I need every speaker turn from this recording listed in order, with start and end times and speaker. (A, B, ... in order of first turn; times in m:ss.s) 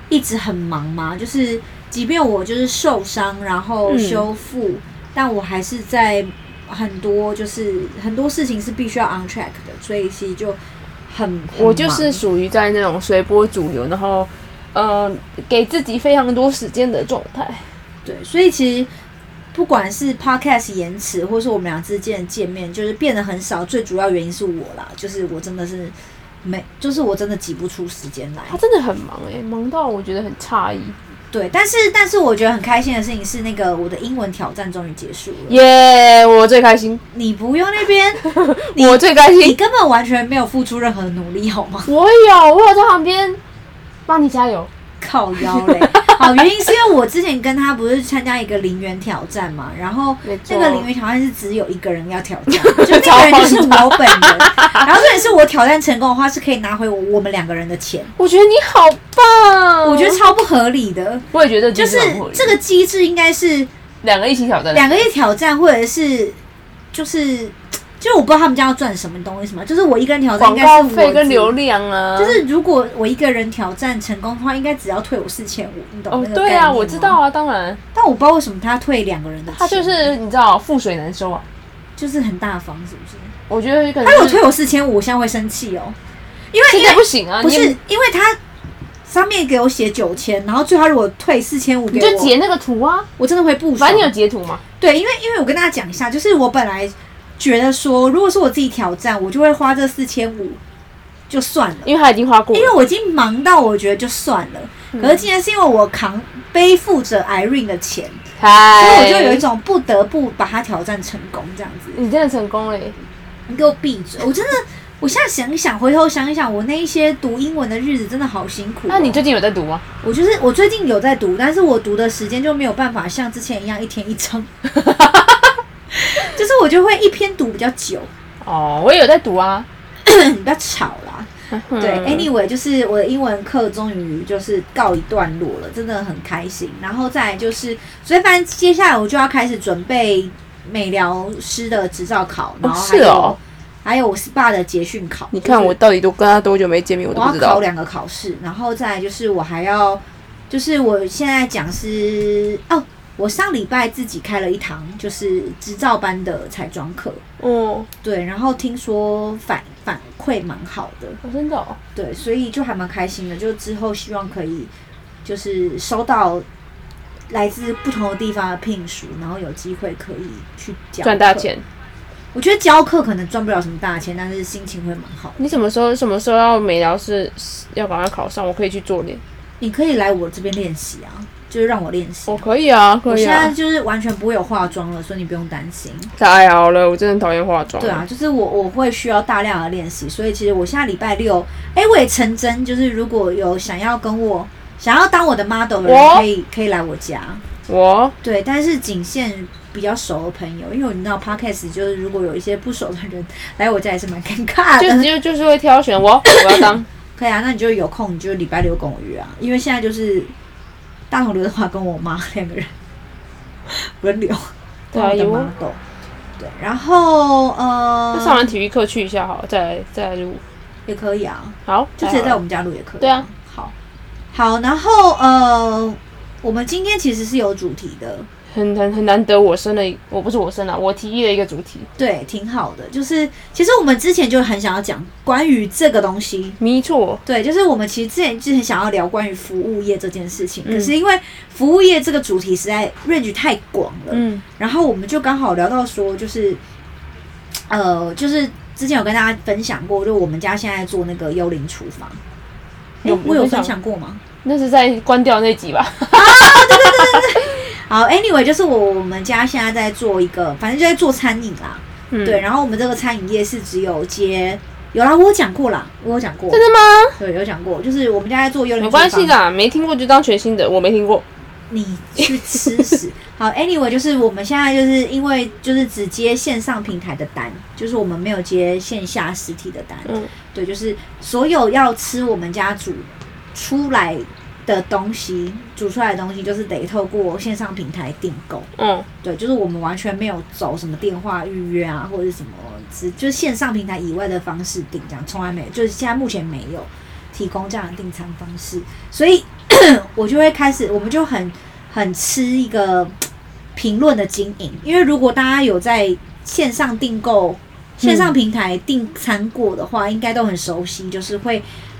0:00.1-0:12.2 A
0:03.8-0:04.3 B
0:11.5-0:17.7 B
0:18.0-0:18.9 A
0:19.5-0:28.6 A
0:28.5-0:31.0 B
0:31.3-0:35.6 A
0:35.5-0:37.0 B
0:37.1-0:41.9 A
0:38.2-0:39.6 B
0:41.8-0:43.4 B
0:44.1-0:44.7 B
0:45.0-0:58.1 A
0:45.4-0:46.4 B
0:50.2-0:50.9 B
0:52.5-0:54.8 B
0:58.2-1:00.2 B
0:59.8-1:03.7 A
1:01.3-1:02.6 B
1:04.0-1:05.0 B
1:04.7-1:06.4 A
1:06.9-1:11.5 A
1:10.4-1:12.4 B
1:12.2-1:17.2 A
1:16.1-1:17.8 B
1:17.9-1:20.1 A
1:19.5-1:21.4 B
1:22.0-1:23.3 A
1:23.5-1:24.4 B
1:24.0-1:26.0 A
1:26.5-1:28.4 A
1:26.7-1:27.8 B
1:29.1-1:32.3 A
1:31.9-1:33.1 B
1:33.2-1:34.1 A
1:33.8-1:34.6 B
1:34.8-1:40.6 A
1:41.3-1:41.9 A
1:41.8-1:42.7 B
1:42.5-1:48.2 A
1:44.9-1:45.2 B
1:48.4-1:49.4 B
1:48.8-1:52.0 A
1:51.9-1:53.0 B
1:53.5-1:59.2 A
1:58.9-1:59.8 B
2:00.0-2:04.5 A
2:04.7-2:05.5 B
2:05.9-2:08.1 A
2:08.4-2:09.7 B
2:10.0-2:25.7 A
2:11.5-2:12.3 B
2:22.6-2:23.4 B
2:25.3-2:27.6 B
2:27.1-2:37.2 A
2:37.4-2:37.9 B
2:38.0-2:41.2 A
2:41.2-2:41.8 B
2:41.9-2:44.7 A
2:45.2-2:46.4 A
2:47.3-2:51.5 A
2:51.0-2:51.6 B
2:52.3-2:55.4 A
2:55.4-2:59.2 B
2:59.6-3:02.4 A
3:02.3-3:03.5 B
3:03.1-3:06.1 A
3:06.2-3:08.0 B
3:07.8-3:17.4 A
3:15.8-3:16.2 B
3:17.7-3:18.1 B
3:18.2-3:25.1 A
3:24.8-3:26.9 B
3:26.3-3:30.3 A
3:31.1-3:32.7 A
3:33.7-3:35.8 A
3:34.9-3:35.5 B
3:36.4-3:38.5 A
3:38.1-3:40.4 B
3:40.9-3:43.7 A
3:41.7-3:42.4 B
3:43.0-3:43.2 B
3:44.3-3:48.3 A
3:48.5-3:51.9 B
3:52.0-3:56.6 A
3:56.6-3:57.2 B
3:57.2-4:06.6 A
4:00.6-4:00.9 B
4:04.1-4:04.4 B
4:07.7-4:12.2 A
4:13.0-4:14.2 A
4:13.0-4:13.7 B
4:14.4-4:17.4 B
4:16.1-4:26.6 A
4:22.1-4:22.4 B
4:26.5-4:27.2 B
4:27.2-4:29.4 A
4:28.8-4:31.2 B
4:31.7-4:48.7 A
4:40.1-4:40.3 B
4:48.8-4:49.1 B
4:49.2-5:03.2 A
5:03.8-5:11.6 A
5:08.0-5:08.3 B